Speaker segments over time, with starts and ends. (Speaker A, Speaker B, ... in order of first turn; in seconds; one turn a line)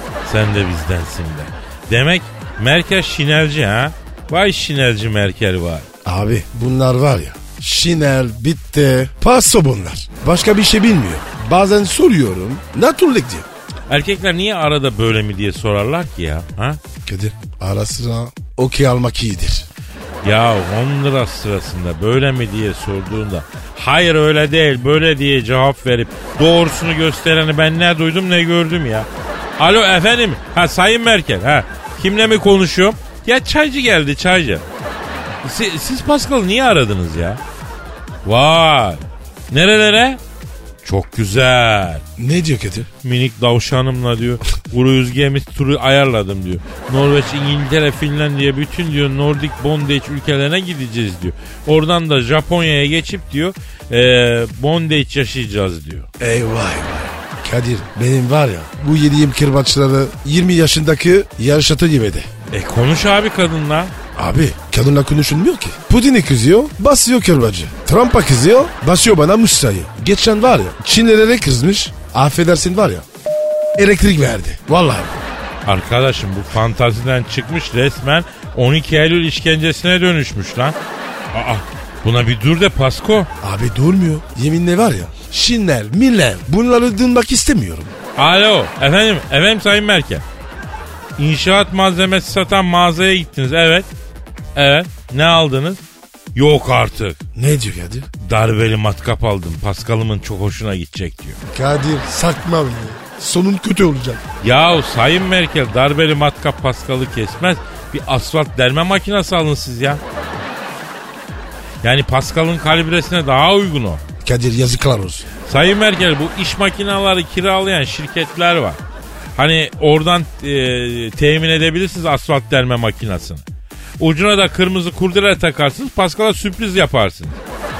Speaker A: 0.2-5.9
Speaker B: 6.0-13.5
Speaker A: 13.9-16.8
Speaker B: 17.1-19.6
Speaker A: 20.2-34.6
Speaker A: 35.4-37.4
Speaker A: 38.2-40.2
Speaker A: 40.8-42.0
Speaker B: 42.2-42.9
Speaker A: 43.0-56.1
Speaker B: 56.2-62.3
Speaker A: 62.5-63.9
Speaker B: 64.1-73.0
Speaker B: 73.8-75.2
Speaker A: 75.6-80.8
Speaker A: 81.3-83.3
Speaker B: 83.4-87.9
Speaker A: 88.2-90.2
Speaker A: 91.2-93.9
Speaker A: 94.5-95.8
Speaker A: 96.3-97.2
Speaker B: 97.3-98.1
Speaker A: 98.2-101.4
Speaker B: 101.5-104.2
Speaker A: 104.4-110.0
Speaker A: 111.8-114.0
Speaker B: 114.2-115.3
Speaker A: 115.5-118.8
Speaker A: 119.3-123.4
Speaker A: 124.0-127.4